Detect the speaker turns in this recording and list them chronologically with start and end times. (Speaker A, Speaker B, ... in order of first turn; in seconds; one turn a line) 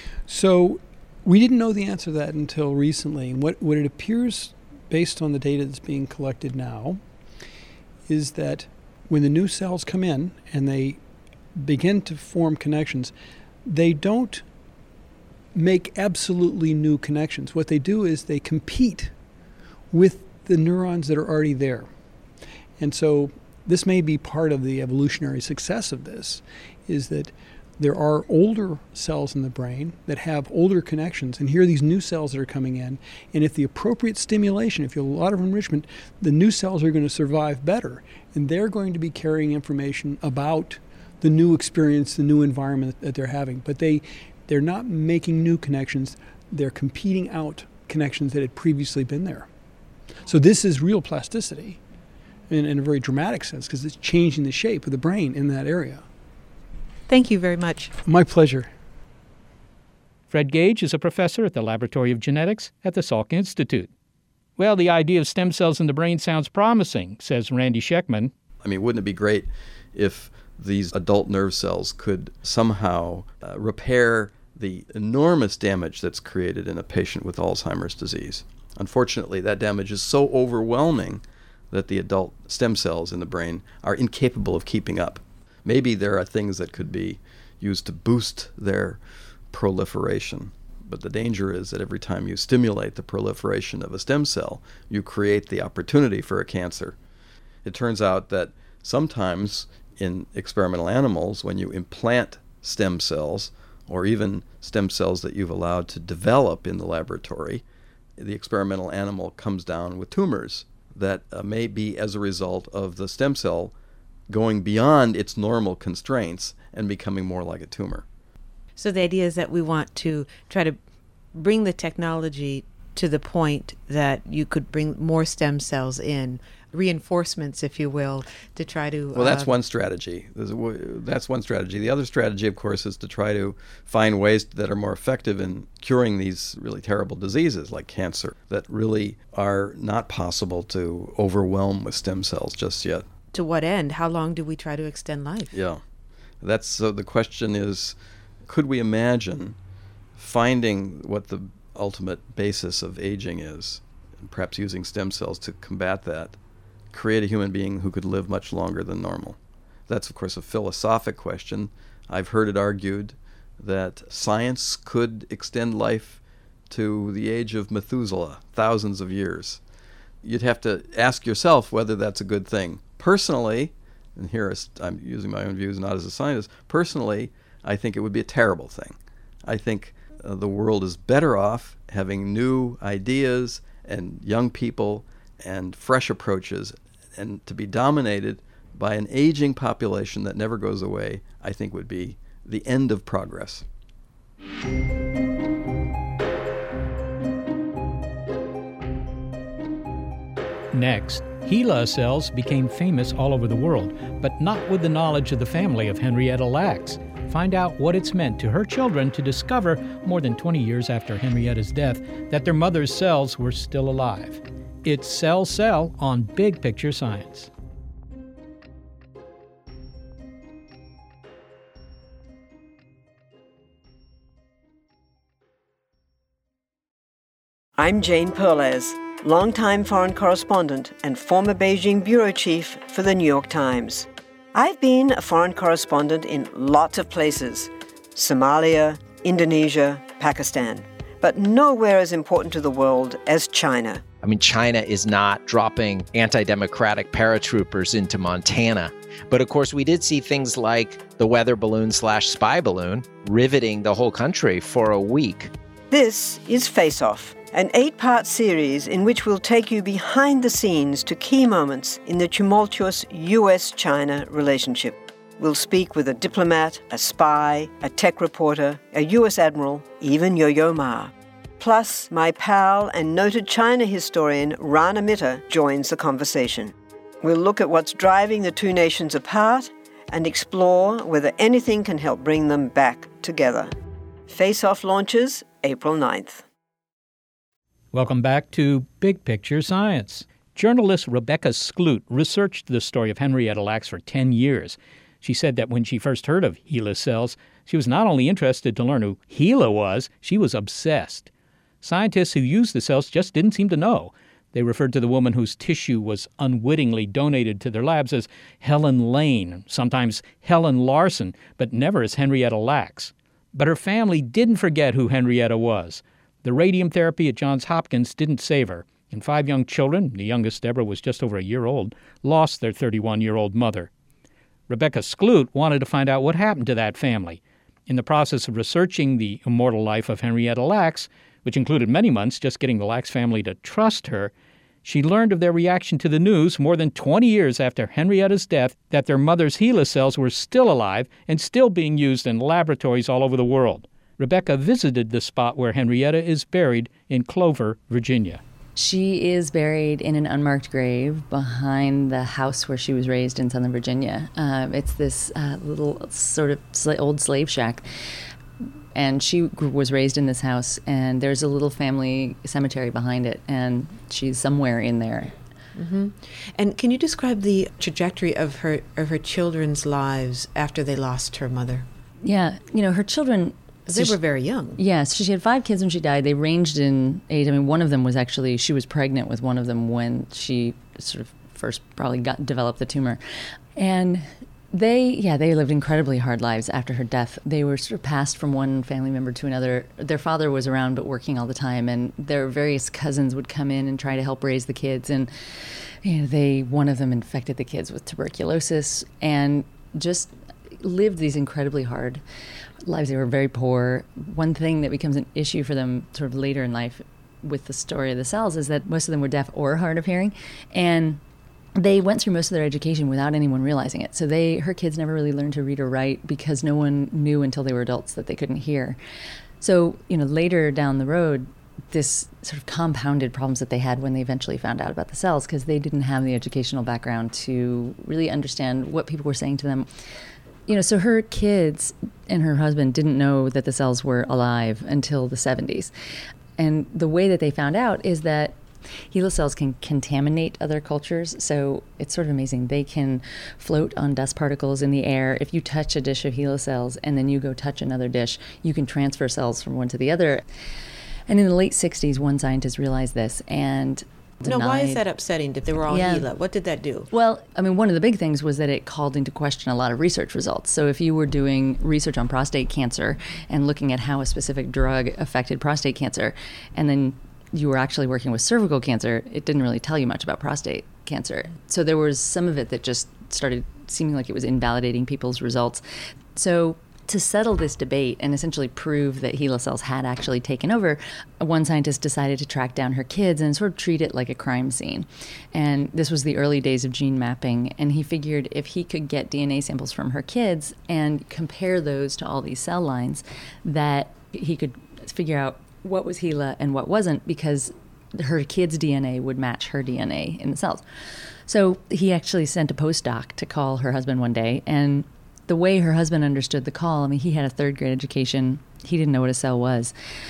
Speaker A: 0.3-7.0
Speaker A: 8.1-11.0
Speaker A: 11.6-13.1
Speaker A: 13.7-14.4
Speaker A: 15.5-19.1
Speaker A: 19.9-21.9
Speaker A: 22.8-49.5
Speaker A: 50.2-51.8
Speaker A: 52.5-56.0
Speaker B: 57.1-57.9
Speaker A: 58.0-58.7
Speaker C: 60.3-63.9
Speaker C: 64.6-68.3
Speaker D: 68.6-89.0
Speaker D: 89.5-97.0
Speaker D: 97.6-107.6
Speaker D: 108.2-113.7
Speaker D: 114.3-118.0
Speaker B: 118.8-120.8
Speaker B: 121.3-129.5
Speaker D: 129.1-143.1
Speaker B: 143.3-145.5
Speaker D: 145.5-145.8
Speaker D: 146.4-147.9
Speaker D: 148.5-149.6
Speaker D: 150.2-156.4
Speaker D: 156.9-169.6
Speaker D: 170.2-193.6
Speaker C: 200.7-217.5
Speaker E: 227.8-244.0
Speaker F: 244.2-255.5
Speaker E: 255.9-283.7
Speaker E: 284.3-286.4
Speaker C: 287.9-301.3
Speaker C: 301.8-323.9
Speaker C: 324.7-334.3
Speaker C: 334.8-348.4
Speaker G: 348.8-357.9
Speaker G: 358.9-365.3
Speaker B: 365.8-371.8
Speaker G: 372.2-374.2
Speaker B: 373.9-374.8
Speaker G: 374.8-383.2
Speaker G: 383.8-402.2
Speaker G: 402.8-411.2
Speaker G: 411.8-419.0
Speaker G: 419.6-429.9
Speaker G: 430.7-435.9
Speaker G: 436.6-438.6
Speaker G: 439.1-450.4
Speaker G: 451.3-455.0
Speaker B: 454.4-457.1
Speaker G: 455.9-456.2
Speaker G: 457.1-475.8
Speaker G: 476.3-500.8
Speaker G: 501.5-509.9